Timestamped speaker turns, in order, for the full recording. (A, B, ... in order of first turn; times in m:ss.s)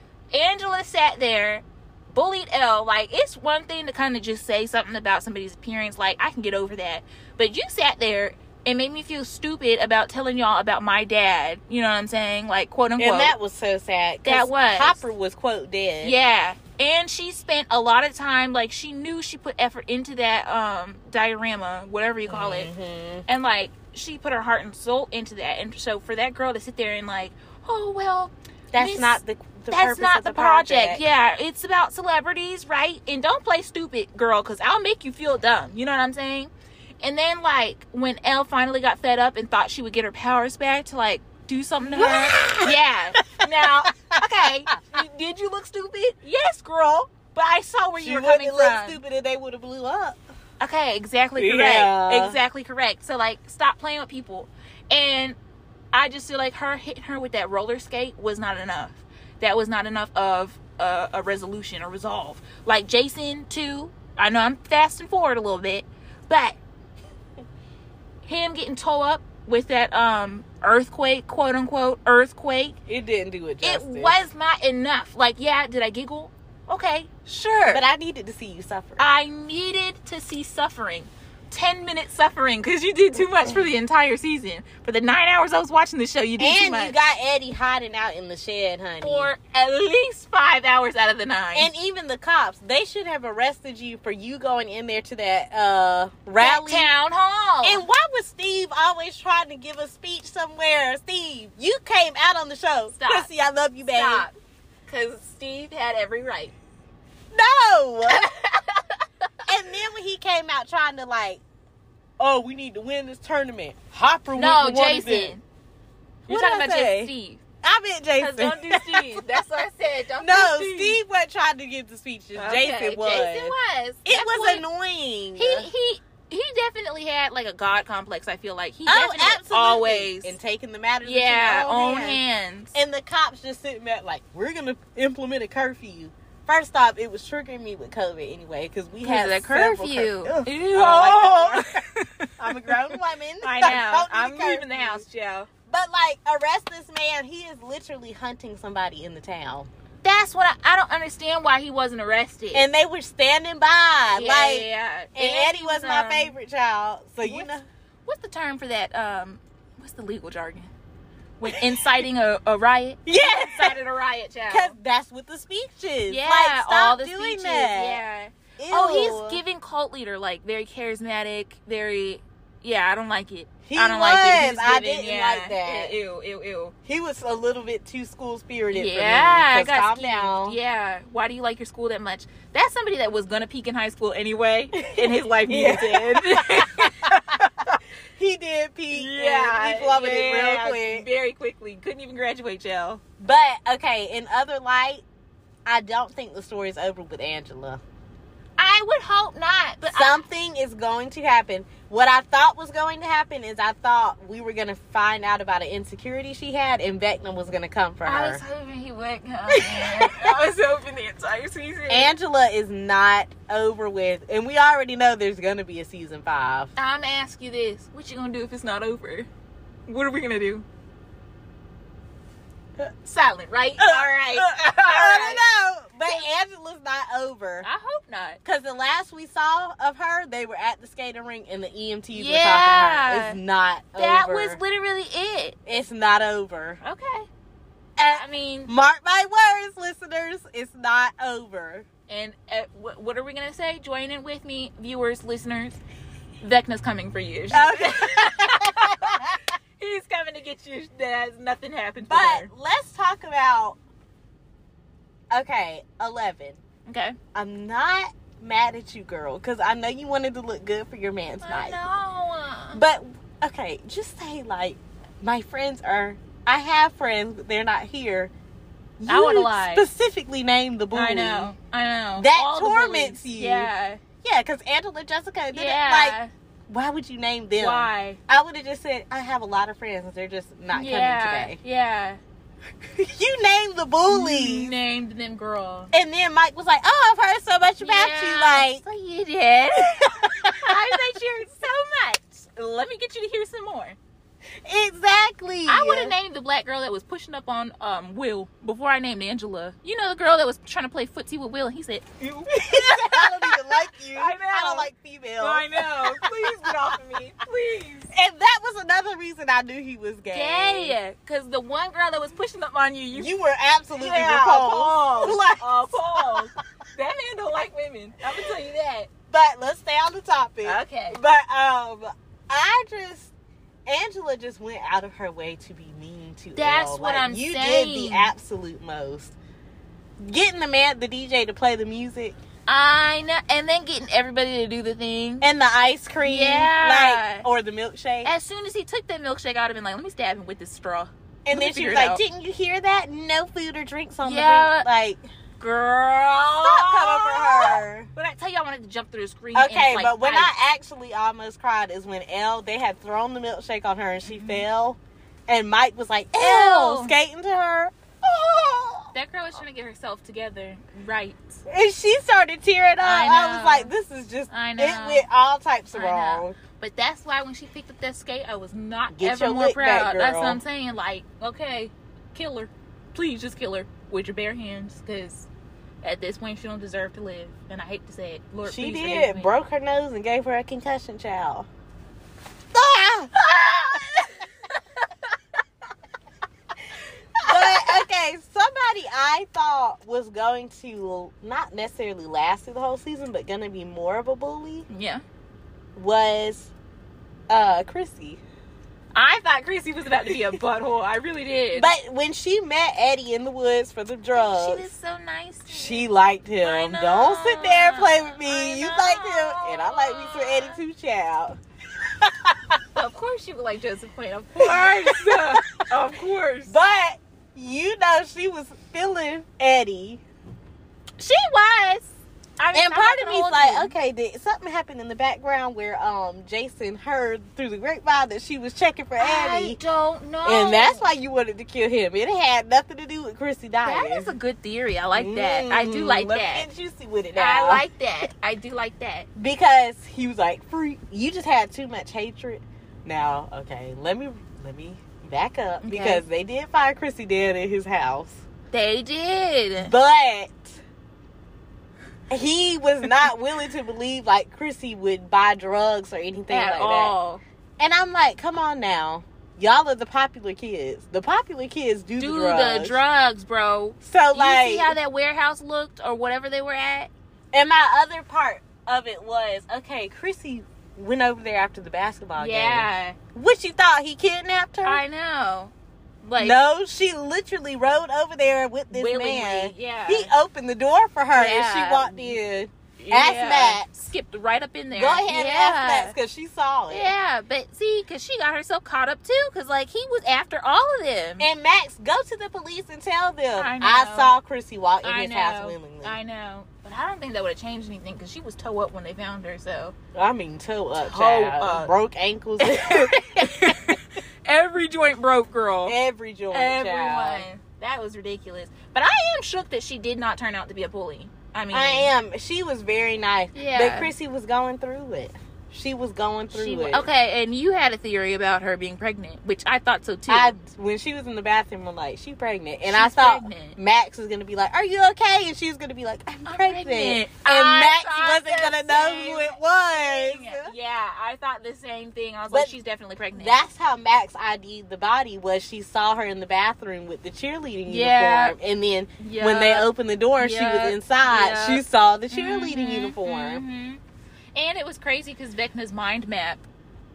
0:00.3-0:13.3 A
0:13.0-0:16.1 B
0:14.2-0:15.0 A
0:16.0-0:22.7 A
0:22.3-0:23.2 B
0:23.2-0:49.0 A
0:28.7-0:31.0 B
0:41.9-0:43.5 B
0:44.1-0:44.7 B
0:48.0-0:50.2 B
0:50.6-0:55.4 A
0:51.4-0:52.4 B
0:55.9-1:06.6 A
1:08.2-1:12.8 A
1:12.9-1:14.2 B
1:13.6-1:17.8 A
1:17.7-1:19.1 B
1:19.0-1:27.0 A
1:26.4-1:29.3 B
1:29.0-1:31.7 A
1:31.5-1:36.9 B
1:36.4-1:37.8 A
1:37.6-1:44.3 B
1:42.9-1:43.3 A
1:43.8-1:44.3 A
1:44.9-1:46.5 A
1:47.3-1:48.3 B
1:48.1-1:49.0 A
1:49.5-1:51.4 B
1:52.2-1:55.4 B
1:54.4-1:55.4 A
1:56.3-1:57.1 B
1:56.3-1:57.4 A
1:57.6-1:59.2 B
1:58.2-2:01.0 A
2:00.2-2:05.7 B
2:02.4-2:04.6 A
2:05.4-2:10.4 A
2:08.8-2:12.2 B
2:11.0-2:12.7 A
2:12.7-2:21.7 B
2:19.0-2:25.5 A
2:22.4-2:25.0 B
2:25.7-2:29.7 B
2:30.0-2:32.7 A
2:32.5-2:37.6 B
2:34.1-2:36.3 A
2:37.2-2:37.5 A
2:38.1-2:40.7 A
2:41.4-2:44.8 A
2:41.4-2:42.0 B
2:43.1-2:43.8 B
2:44.5-2:48.0 B
2:46.1-2:56.7 A
2:48.6-2:49.4 B
2:53.6-2:55.9 B
2:56.9-3:00.6 B
2:58.7-3:07.7 A
3:04.7-3:11.1 B
3:08.9-3:13.0 A
3:13.2-3:15.0 B
3:15.6-3:17.8 B
3:18.6-3:20.2 A
3:19.9-3:28.4 B
3:28.0-3:32.1 A
3:29.5-3:30.4 B
3:31.9-3:36.7 B
3:36.8-3:39.3 A
3:39.9-3:40.6 A
3:43.0-3:45.4 A
3:43.8-3:47.7 B
3:47.6-3:48.4 A
3:48.4-3:54.6 B
3:52.1-3:53.4 A
3:54.0-3:55.6 A
3:55.6-3:56.8 B
3:56.8-3:57.3 A
3:58.0-4:01.9 B
3:58.1-3:58.7 A
4:02.1-4:05.8 A
4:06.4-4:09.3 A
4:07.5-4:09.4 B
4:09.8-4:12.5 A
4:12.0-4:13.8 B
4:15.3-4:16.6 B
4:16.8-4:17.2 A
4:17.3-4:21.8 B
4:21.4-4:22.8 A
4:22.7-4:28.3 B
4:29.0-4:31.5 B
4:29.1-4:29.9 A
4:30.9-4:34.0 A
4:32.2-4:33.7 B
4:34.2-4:36.2 B
4:35.5-4:36.3 A
4:36.7-4:41.6 B
4:37.6-4:38.2 A
4:40.7-4:42.2 A
4:42.8-4:44.7 B
4:44.1-4:45.9 A
4:45.9-4:48.8 B
4:47.8-4:54.0 A
4:49.8-4:51.0 B
4:54.6-4:56.1 B
4:55.6-5:08.1 A
5:02.5-5:06.7 B
5:08.1-5:11.0 B
5:10.3-5:13.4 A
5:13.1-5:16.5 B
5:14.0-5:19.1 A
5:19.3-5:23.3 B
5:20.6-5:21.2 A
5:23.8-5:29.4 B
5:26.5-5:28.3 A
5:30.2-5:32.4 B
5:32.7-5:35.5 A
5:35.4-5:38.3 B
5:36.2-5:37.5 A
5:38.2-5:42.2 A
5:41.5-5:45.2 B
5:44.2-5:44.9 A
5:45.6-5:50.5 A
5:46.6-5:48.1 B
5:49.5-5:59.1 B
5:54.3-5:54.6 A
5:56.4-5:57.1 A
5:59.1-6:01.6 A
6:01.7-6:06.6 B
6:03.0-6:03.9 A
6:04.5-6:05.3 A
6:05.9-6:15.5 A
6:09.1-6:10.6 B
6:16.0-6:19.5 A
6:18.6-6:21.7 B
6:22.7-6:24.3 B
6:27.4-6:28.0 A
6:27.4-6:34.8 B
6:34.9-6:35.2 A
6:36.0-6:36.7 B
6:37.5-6:38.4 B
6:39.1-6:41.9 A
6:41.8-6:44.9 B
6:44.3-6:46.1 A
6:45.7-6:52.8 B
6:46.6-6:50.8 A
6:52.9-6:56.8 A
6:54.6-6:55.8 B
6:56.7-7:00.2 B
7:01.2-7:03.9 A
7:02.7-7:09.8 B
7:09.2-7:11.1 A
7:10.4-7:14.3 B
7:13.8-7:16.7 A
7:15.1-7:17.8 B
7:17.4-7:19.3 A
7:19.4-7:28.4 B
7:25.8-7:26.2 A
7:28.7-7:29.9 A
7:29.8-7:30.8 B
7:32.3-7:37.1 B
7:36.5-7:37.4 A
7:37.8-7:43.0 B
7:42.2-7:47.1 A
7:44.0-7:44.9 B
7:47.5-7:55.0 B
7:52.4-7:53.2 A
7:54.8-7:56.6 A
7:56.4-8:03.9 B
7:58.9-8:00.3 A
8:01.3-8:02.4 A
8:03.0-8:06.1 A
8:04.9-8:07.1 B
8:06.9-8:11.5 A
8:11.4-8:16.2 B
8:13.6-8:14.3 A
8:15.0-8:19.9 A
8:20.1-8:23.9 B
8:21.0-8:21.9 A
8:22.6-8:26.0 A
8:25.8-8:27.5 B
8:26.5-8:32.1 A
8:31.7-8:37.1 B
8:33.5-8:34.1 A
8:36.5-8:40.6 A
8:40.3-8:50.7 B
8:42.8-8:43.8 A
8:46.5-8:53.6 A
8:52.5-8:52.8 B
8:53.3-9:03.6 B
8:57.9-8:58.6 A
8:59.2-9:04.0 A
9:04.5-9:06.6 A